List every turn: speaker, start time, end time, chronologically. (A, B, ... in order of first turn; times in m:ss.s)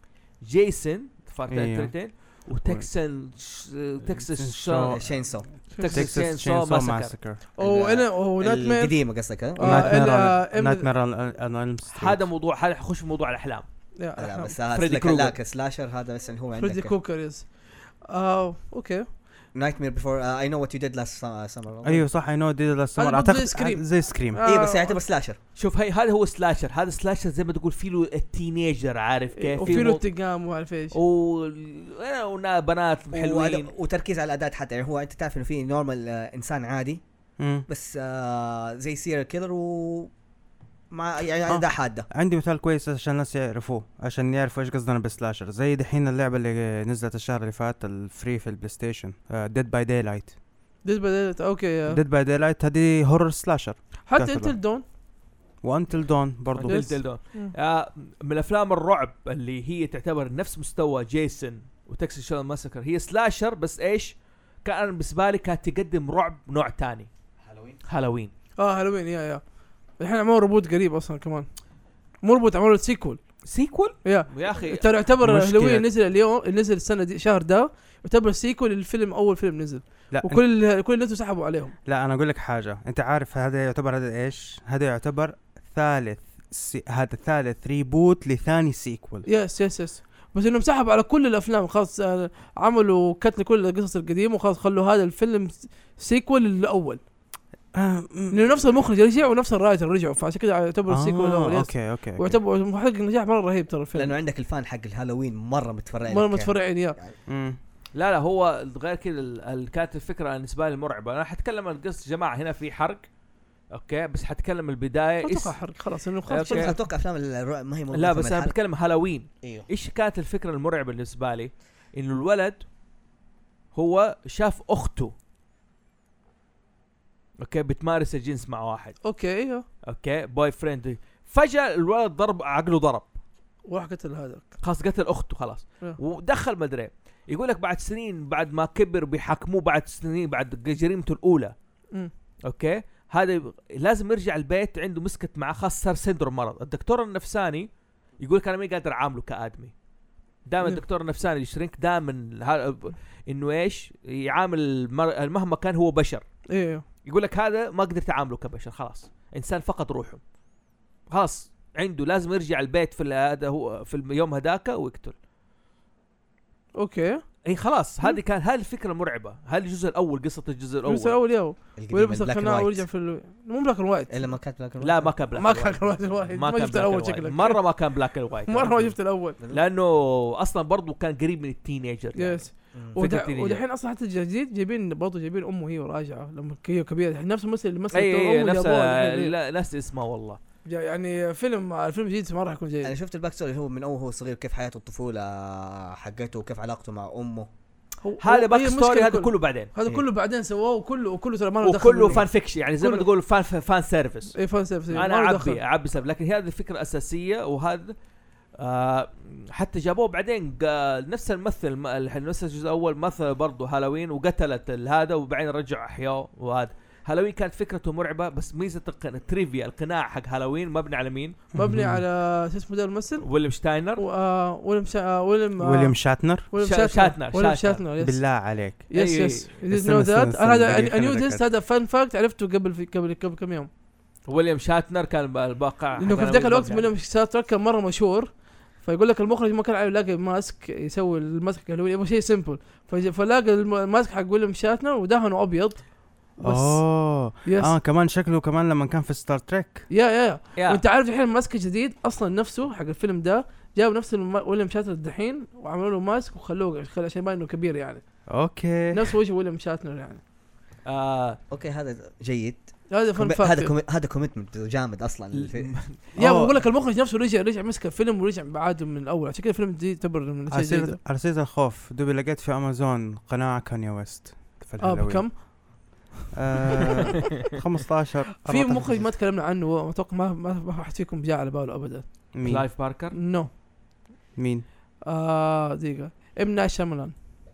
0:00.4-0:05.0 A
0:01.5-0:01.9 B
0:04.1-0:05.0 B
0:04.9-0:05.5 C
0:05.7-0:06.1 D
0:05.8-0:07.1 A
0:05.8-0:07.4 B
0:07.6-0:10.0 C
0:07.6-0:09.0 D
0:09.5-0:10.9 D
0:09.6-0:12.2 B
0:11.9-0:13.6 A
0:14.0-0:14.5 D
0:14.2-0:16.9 C
0:14.7-0:15.4 A
0:16.6-0:17.5 D
0:18.0-0:19.1 D
0:19.5-0:22.0 C
0:21.8-0:24.4 B
0:23.0-0:25.0 D
0:24.4-0:25.4 C
0:25.6-0:30.1 A
0:29.4-0:31.0 D
0:30.9-0:33.7 A
0:33.1-0:37.0 C
0:37.4-0:37.6 B
0:37.7-0:40.1 C
0:40.9-0:42.1 C
0:41.5-0:50.3 B
0:50.8-0:52.0 D
0:51.9-0:54.6 B
0:54.1-0:54.8 D
0:55.6-0:56.9 B
0:56.6-1:07.1 A
0:56.6-0:57.5 D
1:07.4-1:07.8 C
1:07.8-1:08.3 A
1:08.6-1:09.4 D
1:10.0-1:11.5 D
1:12.2-1:13.2 D
1:13.4-1:14.9 A
1:14.0-1:21.8 D
1:15.2-1:15.9 B
1:20.1-1:20.4 B
1:21.8-1:29.2 B
1:29.2-1:37.0 D
1:37.7-1:38.4 B
1:38.3-1:44.2 D
1:40.9-1:42.4 B
1:43.9-1:47.1 C
1:46.1-1:47.0 D
1:47.3-1:47.6 B
1:47.9-1:53.0 A
1:53.7-1:55.6 A
1:55.2-1:56.8 D
1:56.3-1:56.7 A
1:56.4-1:58.5 C
1:57.9-2:02.6 A
2:03.7-2:05.1 A
2:07.4-2:09.0 A
2:09.0-2:09.6 D
2:09.8-2:13.1 A
2:13.7-2:14.5 D
2:14.6-2:21.5 A
2:22.4-2:29.7 A
2:30.5-2:36.2 A
2:36.5-2:36.8 D
2:37.0-2:40.2 A
2:41.1-2:45.1 A
2:46.8-2:47.2 D
2:47.4-2:51.2 A
2:50.8-2:54.2 D
2:51.8-2:52.8 C
2:54.1-2:55.1 C
2:54.8-3:03.6 A
2:55.3-2:57.6 D
2:58.5-2:59.4 D
3:02.1-3:09.3 D
3:07.9-3:10.4 A
3:10.6-3:12.9 D
3:12.8-3:17.5 C
3:18.0-3:23.0 D
3:18.2-3:19.7 A
3:21.6-3:24.4 A
3:24.3-3:25.6 D
3:24.9-3:27.9 A
3:28.6-3:41.4 A
3:41.5-3:43.3 D
3:41.6-3:42.0 B
3:43.2-3:44.0 A
3:44.0-3:46.0 D
3:45.6-3:46.5 B
3:46.5-3:48.2 D
3:46.6-3:47.8 A
3:48.0-3:48.8 B
3:48.9-3:53.7 D
3:48.9-3:49.5 A
3:49.7-3:51.4 B
3:54.2-3:56.9 A
3:56.0-4:07.7 D
4:06.4-4:09.9 B
4:09.9-4:18.0 D
4:10.6-4:10.8 A
4:18.3-4:19.1 B
4:18.9-4:20.2 D
4:20.8-4:21.4 A
4:21.5-4:25.7 C
4:22.9-4:23.7 D
4:25.3-4:26.0 A
4:26.2-4:26.6 B
4:26.2-4:31.0 D
4:30.5-4:35.4 B
4:34.8-4:36.0 D
4:36.3-4:39.0 B
4:38.4-4:42.0 D
4:42.3-4:42.7 B
4:42.4-4:43.2 A
4:43.1-4:43.5 D
4:44.4-4:44.6 B
4:45.0-4:47.1 D